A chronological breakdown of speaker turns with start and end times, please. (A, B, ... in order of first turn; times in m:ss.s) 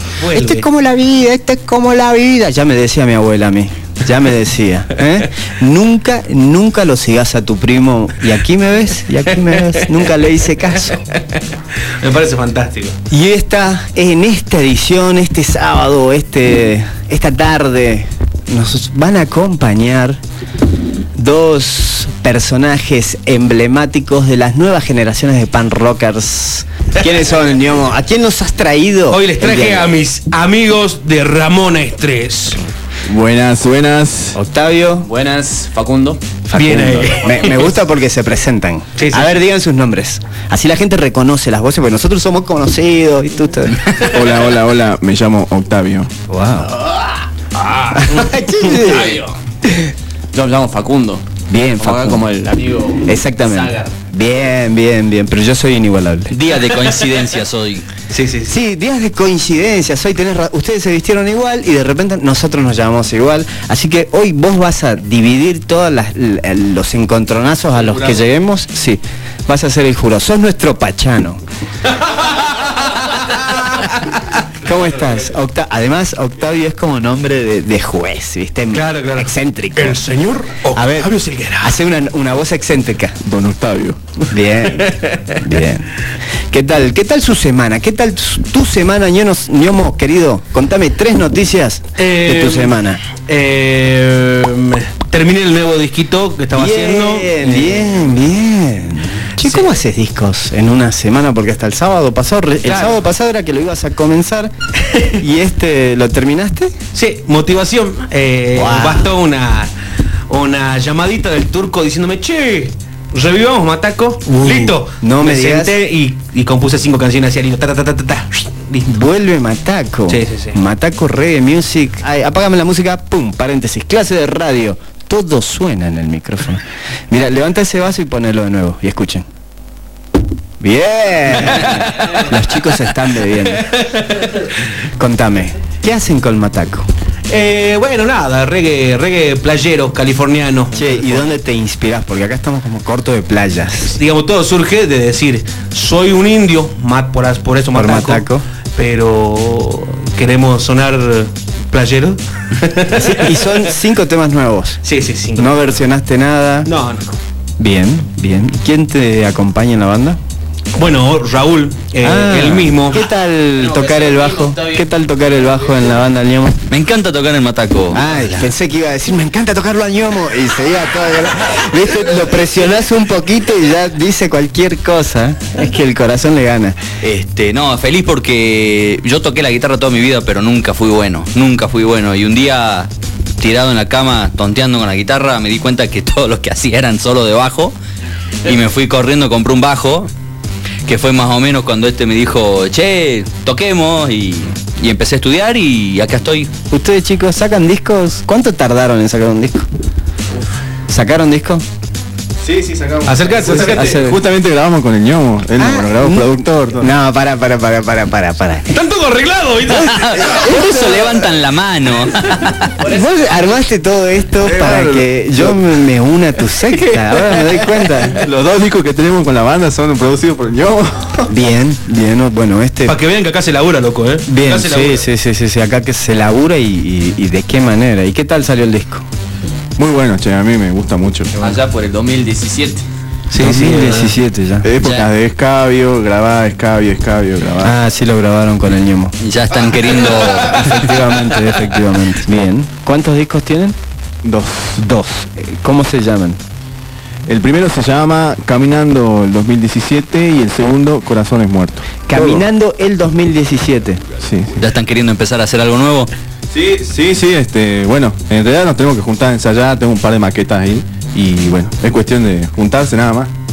0:00.2-0:00.7 A
0:00.3-0:11.0 B
0:12.0-0:13.0 A
0:13.1-0:20.2 B
0:21.2-0:29.9 B
0:29.1-0:32.7 A
0:33.0-0:34.4 C
0:34.4-0:35.1 B
0:35.0-0:36.2 D
0:36.5-0:44.0 B
0:36.5-0:37.7 A
0:39.0-0:39.4 A
0:44.0-0:46.1 C
0:46.3-0:46.9 B
0:47.6-0:47.9 A
0:47.9-0:49.9 B
0:48.8-0:49.3 D
0:50.3-0:51.3 D
0:51.5-0:52.3 B
0:51.8-0:53.9 D
0:53.0-0:56.4 B
0:56.3-0:57.9 E
0:56.6-0:57.4 A
0:58.0-0:58.6 A
0:58.5-1:11.4 B
1:12.0-1:14.2 A
1:14.6-1:20.0 B
1:18.7-1:21.8 A
1:20.7-1:23.2 B
1:23.2-1:24.1 C
1:24.3-1:33.0 B
1:32.0-1:37.9 A
1:36.5-1:46.7 B
1:39.4-1:39.8 A
1:42.6-1:43.0 A
1:46.9-1:49.7 A
1:48.5-1:49.1 B
1:50.3-1:58.9 A
1:54.4-1:55.8 B
1:58.9-2:09.2 B
2:00.1-2:00.6 A
2:10.6-2:13.8 B
2:13.8-2:14.4 A
2:15.0-2:16.9 B
2:17.3-2:21.2 A
2:20.7-2:24.0 B
2:23.8-2:33.5 A
2:27.7-2:28.4 B
2:32.9-2:34.8 B
2:34.8-2:35.8 A
2:35.4-2:36.7 B
2:36.6-2:37.2 A
2:37.6-2:40.2 B
2:40.7-2:43.0 A
2:42.0-2:46.6 B
2:43.6-2:44.9 D
2:46.7-2:48.4 E
2:47.9-2:56.8 B
2:57.0-3:07.8 E
3:08.4-3:10.1 E
3:10.8-3:16.5 E
3:16.7-3:19.7 B
3:20.9-3:21.6 B
3:22.4-3:26.9 C
3:23.1-3:23.9 A
3:23.5-3:24.2 B
3:25.6-3:28.7 B
3:28.7-3:30.5 A
3:29.7-3:32.7 E
3:30.3-3:30.8 B
3:30.3-3:31.0 C
3:32.8-3:33.2 D
3:32.8-3:38.2 B
3:34.4-3:35.7 C
3:36.7-3:41.3 C
3:41.3-3:43.0 B
3:42.8-3:45.1 A
3:44.3-3:49.0 B
3:49.8-3:51.5 C
3:51.4-3:52.8 D
3:53.3-3:54.1 A
3:53.3-3:54.7 B
3:54.6-3:57.7 C
3:57.6-3:59.2 B
3:59.2-4:00.8 E
4:00.4-4:03.8 B
4:04.2-4:04.9 C
4:04.8-4:06.4 B
4:07.3-4:12.4 C
4:12.1-4:14.0 B
4:14.2-4:14.6 C
4:14.6-4:16.1 E
4:16.5-4:23.3 C